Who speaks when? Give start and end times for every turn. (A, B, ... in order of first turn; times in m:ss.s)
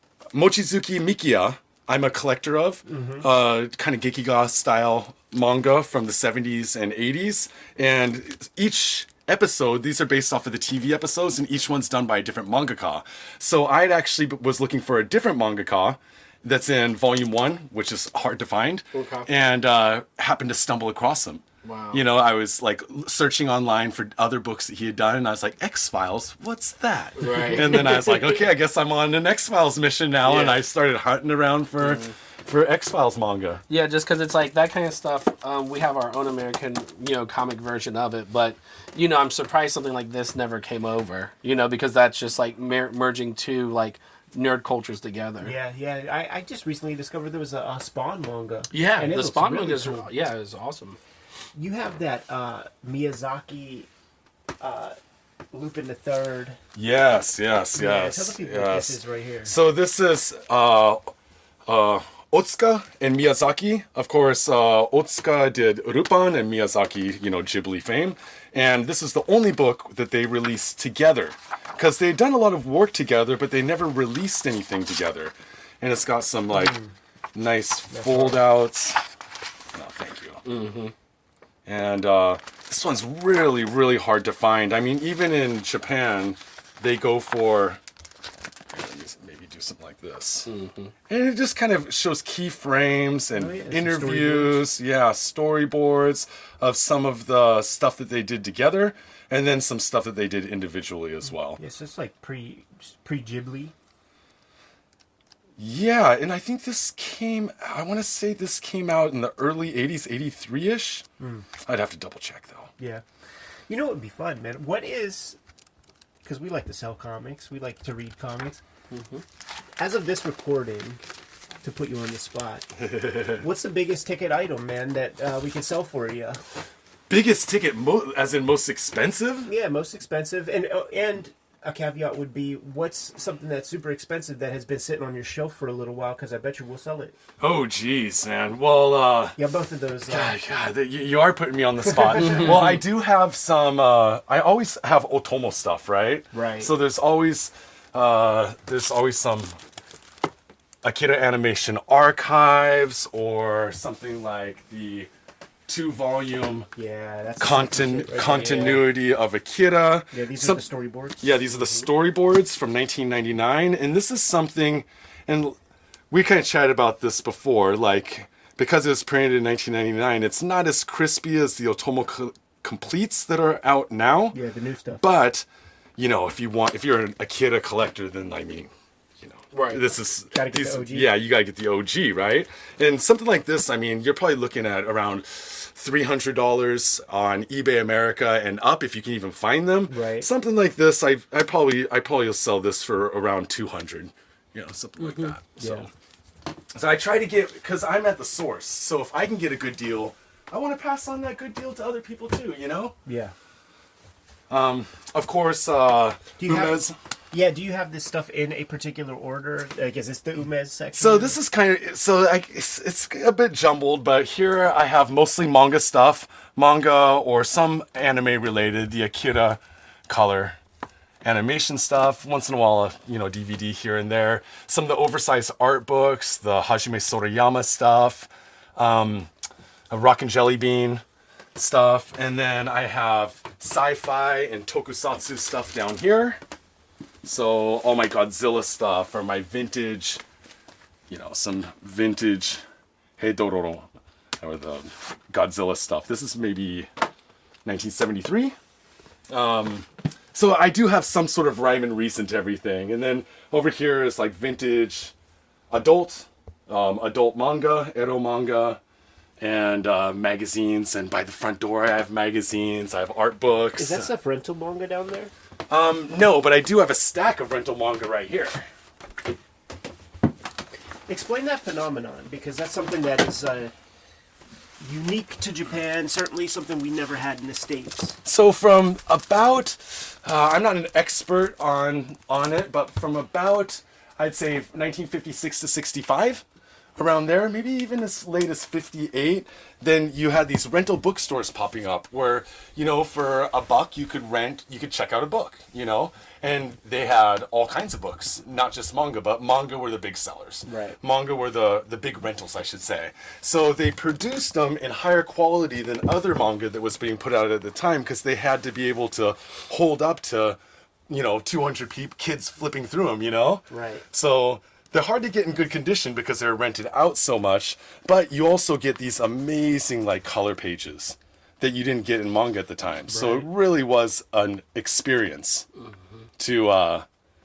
0:00.3-0:33.6 A
0:02.9-0:03.2 B
0:18.9-0:19.3 C
0:21.6-0:22.0 C
0:27.2-0:28.2 C
0:30.2-0:30.6 C
0:31.8-0:32.1 C
0:33.7-0:45.5 C
0:45.4-0:50.0 B
0:48.7-0:51.0 C
0:51.5-0:53.9 B
0:54.6-0:55.0 B
0:55.5-0:56.6 B
0:56.7-1:01.1 A
0:57.7-0:59.5 B
1:01.6-1:16.8 A
1:16.5-1:16.9 B
1:17.3-1:19.0 A
1:17.9-1:18.4 B
1:19.7-1:20.4 A
1:20.4-1:20.9 C
1:21.6-1:27.8 A
1:28.7-1:30.5 A
1:30.4-1:30.9 C
1:31.1-1:41.6 A
1:33.3-1:34.6 B
1:41.6-1:43.7 B
1:45.6-1:51.0 A
1:51.2-1:51.5 B
1:51.6-1:52.7 A
1:52.8-1:53.0 B
1:53.7-1:55.4 B
1:56.2-1:58.6 B
1:58.9-1:59.2 C
1:59.8-2:01.0 B
2:01.6-2:02.7 B
2:02.9-2:03.4 A
2:03.3-2:06.4 B
2:07.1-2:09.5 A
2:09.4-2:17.1 B
2:17.4-2:19.4 A
2:19.4-2:20.4 B
2:20.1-2:29.6 A
2:26.3-2:26.7 B
2:30.8-2:35.1 A
2:35.7-2:36.7 A
2:36.8-2:38.8 B
2:37.4-2:40.6 A
2:40.1-2:41.9 B
2:41.2-2:45.6 A
2:46.1-2:54.4 A
2:54.3-2:55.0 B
2:55.0-2:55.4 A
2:56.0-3:15.9 A
2:59.5-2:59.8 C
3:00.3-3:01.1 B
3:09.9-3:10.3 B
3:15.0-3:15.3 C
3:15.6-3:15.9 B
3:16.7-3:23.0 A
3:23.0-3:23.3 B
3:24.5-3:26.9 A
3:26.4-3:31.3 B
3:30.9-3:40.6 A
3:41.2-3:49.3 A
3:49.9-3:51.0 A
3:51.5-3:56.4 A
3:57.2-4:00.2 A
4:01.1-4:02.6 A
4:03.2-4:03.9 A
4:04.4-4:06.9 A
4:07.6-4:08.5 A
4:09.3-4:15.1 A
4:15.7-4:18.8 A
4:19.4-4:24.1 A
4:23.8-4:25.3 B
4:25.7-4:28.6 A
4:31.1-4:33.7 B
4:34.8-4:38.2 B
4:38.2-4:46.4 A
4:47.0-5:25.6 A
5:00.6-5:01.0 B
5:13.7-5:14.0 B
5:23.1-5:23.5 B
5:26.4-5:27.0 A